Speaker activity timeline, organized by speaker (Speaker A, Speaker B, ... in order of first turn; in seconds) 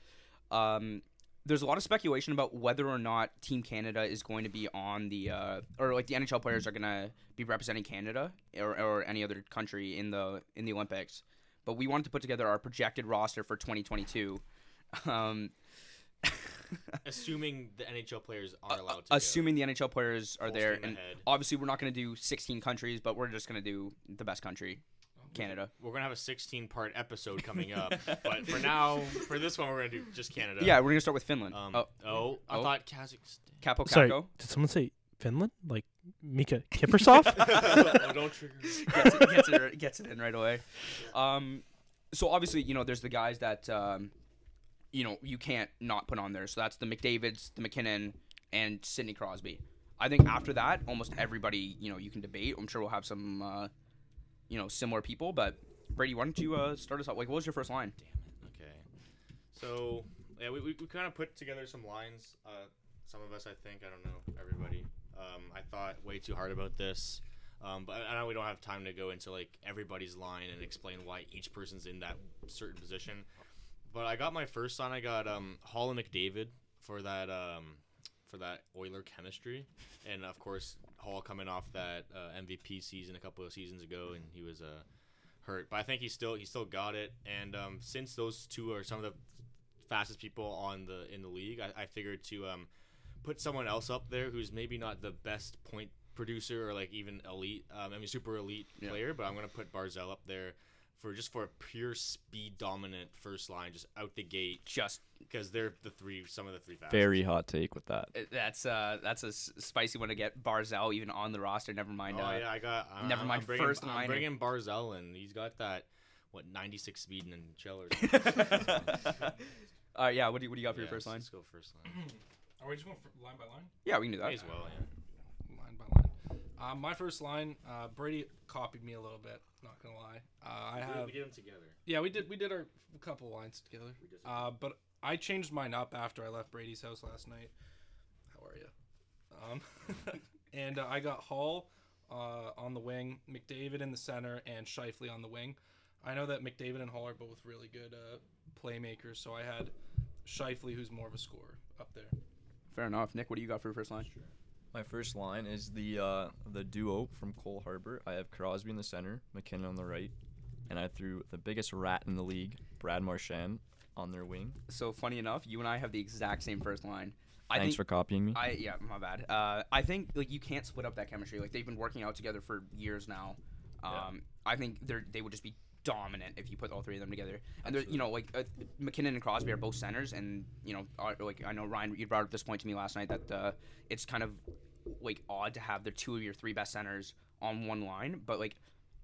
Speaker A: 0.5-15.5, 16.2-16.8, 18.7-25.7, 28.1-28.7, 30.6-31.9, 32.5-32.8, 33.6-34.3, 37.1-38.1, 38.7-44.1, 44.9-53.7, 54.5-58.0, 104.7-105.0, 108.1-114.3, 118.0-119.2, 119.9-121.3, 123.8-124.5, 152.7-154.1, 164.7-188.6
Speaker B: 17.0-19.6, 20.4-21.3, 25.4-33.6, 37.3-39.4, 58.0-58.9, 59.5-73.3, 73.9-84.8, 85.4-89.2, 89.9-92.7, 93.2-104.7, 105.3-107.2, 112.1-119.2, 120.7-122.0, 124.2-124.9, 130.8-131.8, 134.0-134.6, 154.1-154.3
Speaker C: 25.2-25.5, 119.1-119.6, 121.8-123.7, 125.5-131.2, 131.9-137.5, 138.3-138.7, 139.3-152.2
Speaker D: 33.9-37.7
Speaker E: 106.9-108.1, 154.7-160.1, 160.7-164.6, 167.5-168.5, 177.6-178.1